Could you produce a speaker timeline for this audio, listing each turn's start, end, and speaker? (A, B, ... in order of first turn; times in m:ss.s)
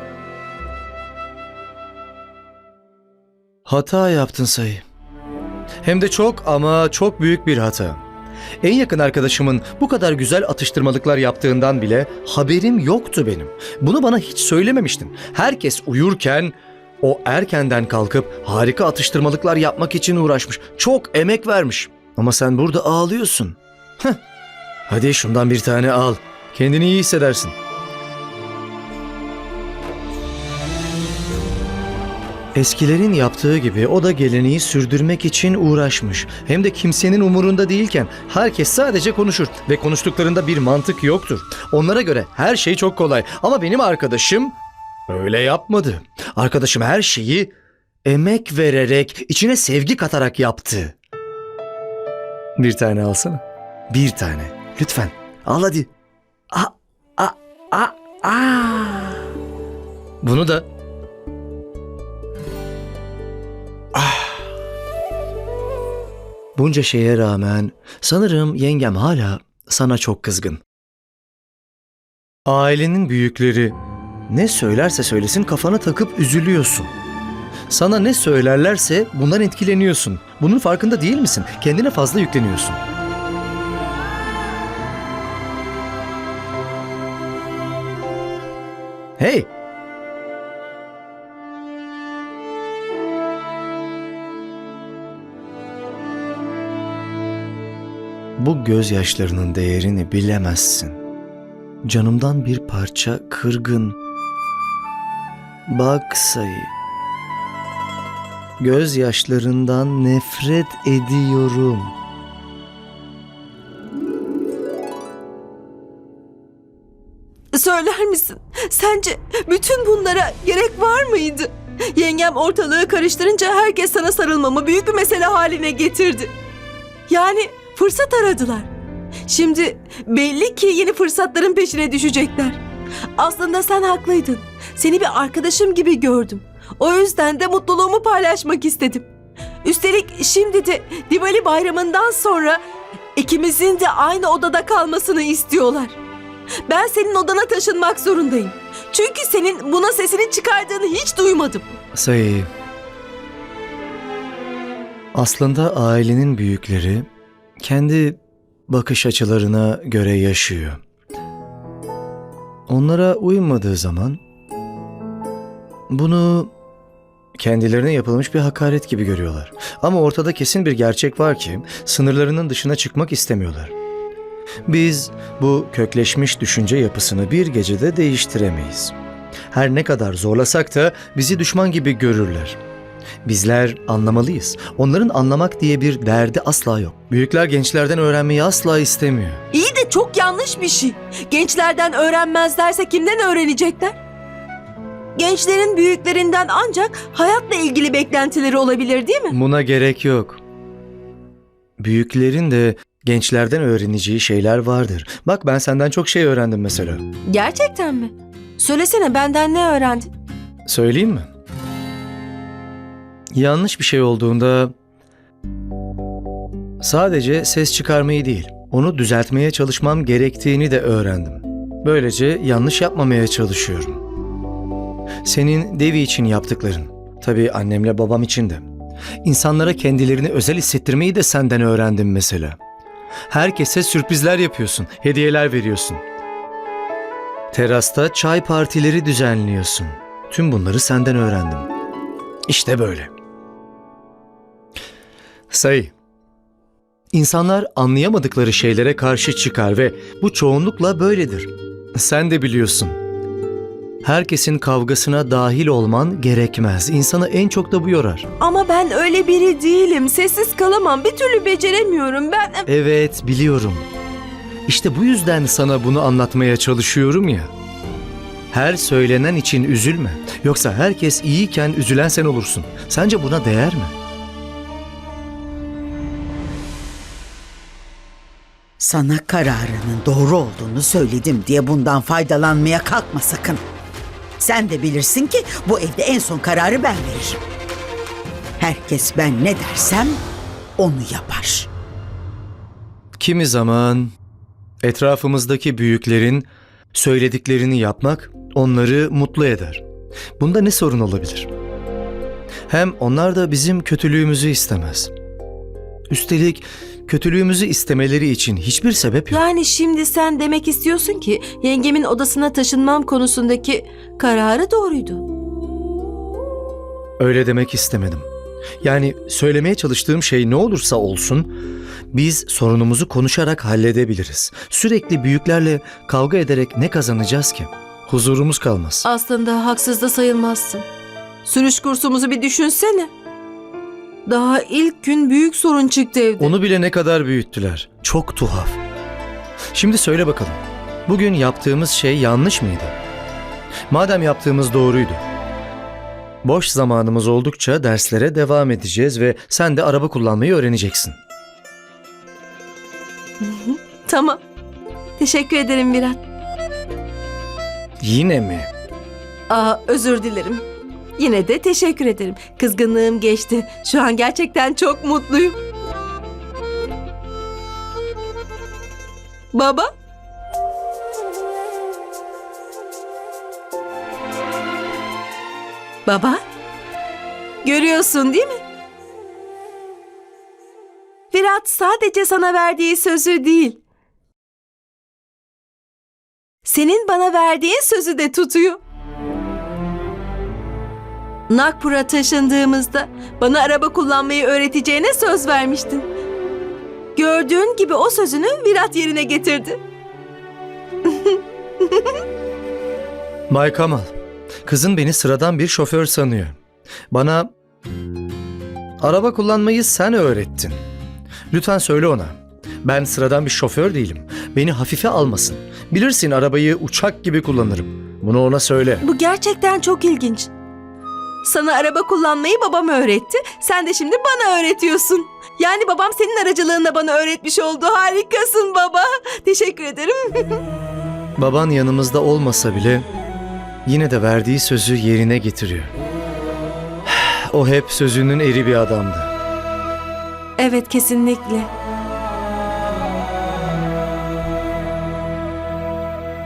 0:03.6-0:04.8 A
0:05.8-0:08.0 A
0:08.6-0:24.2 A
0:24.9-0:27.5 A
0:32.5-0:44.6 A
0:45.1-0:47.5 A
0:48.0-0:50.9 A
0:52.6-0:55.9 A
0:56.5-0:59.2 A
1:00.2-1:00.6 A
1:04.0-1:04.3 A
1:06.5-1:10.6 A
1:12.5-1:13.8 A
1:14.3-1:16.9 A
1:17.7-1:22.8 A
1:29.2-1:29.5 A
1:38.4-1:41.0 A
1:41.8-1:44.0 A
1:45.7-1:46.7 A
1:48.6-1:51.9 A
1:57.5-2:06.3 B
2:07.1-2:08.7 B
2:09.2-2:12.6 B
2:13.2-2:19.1 B
2:19.6-2:22.6 B
2:23.2-2:26.0 B
2:26.7-2:31.7 B
2:31.9-2:32.5 A
2:35.1-2:37.1 A
2:37.6-2:40.8 A
2:42.7-2:44.2 A
2:45.9-2:46.5 A
2:47.4-2:53.7 A
2:54.7-2:58.9 A
2:59.5-3:02.6 A
3:03.2-3:09.4 A
3:09.5-3:14.0 B
3:15.1-3:19.4 B
3:19.3-3:20.4 A
3:21.8-3:27.0 A
3:27.3-3:30.1 B
3:30.6-3:31.3 A
3:33.3-3:34.7 A
3:36.8-3:44.0 A
3:45.2-3:48.7 A
3:49.2-3:52.6 A
3:53.3-3:56.0 A
3:57.5-4:01.7 A
4:02.5-4:03.1 A
4:05.5-4:05.9 A
4:07.1-4:13.0 A
4:14.0-4:18.3 A
4:18.4-4:22.7 B
4:22.7-4:23.8 A
4:24.7-4:27.5 A
4:28.5-4:33.9 A
4:38.8-4:43.6 C
4:44.4-4:47.4 C
4:48.6-4:50.2 C
4:50.8-4:51.7 C
4:53.2-4:54.1 A
4:54.8-4:59.8 A
5:00.4-5:01.5 A
5:02.7-5:05.1 A
5:06.1-5:09.4 A
5:09.3-5:15.2 B
5:17.2-5:18.3 A
5:18.8-5:21.5 A
5:22.1-5:29.1 A
5:29.0-5:30.8 B
5:31.4-5:33.1 B
5:34.2-5:36.5 B
5:36.4-5:38.8 A
5:39.7-5:43.0 A
5:43.9-5:45.2 A
5:46.4-5:51.2 A
5:53.4-5:54.4 B
5:55.2-5:56.2 B
5:58.0-5:58.7 A
5:59.5-6:00.6 B
6:01.2-6:05.6 B
6:09.5-6:09.9 B
6:16.0-6:16.4 B
6:17.6-6:18.6 B
6:21.3-6:23.8 B
6:26.6-6:28.8 B
6:31.5-6:36.1 B
6:37.1-6:39.8 B
6:41.0-6:42.1 B
6:43.5-6:44.1 A
6:44.6-6:46.5 A
6:47.1-6:47.5 A
6:49.0-6:50.8 A
6:51.5-6:59.0 A
6:59.0-7:00.5 B
7:01.4-7:10.6 B
7:11.4-7:13.0 A
7:13.8-7:15.9 A
7:17.1-7:19.3 A
7:20.6-7:21.7 B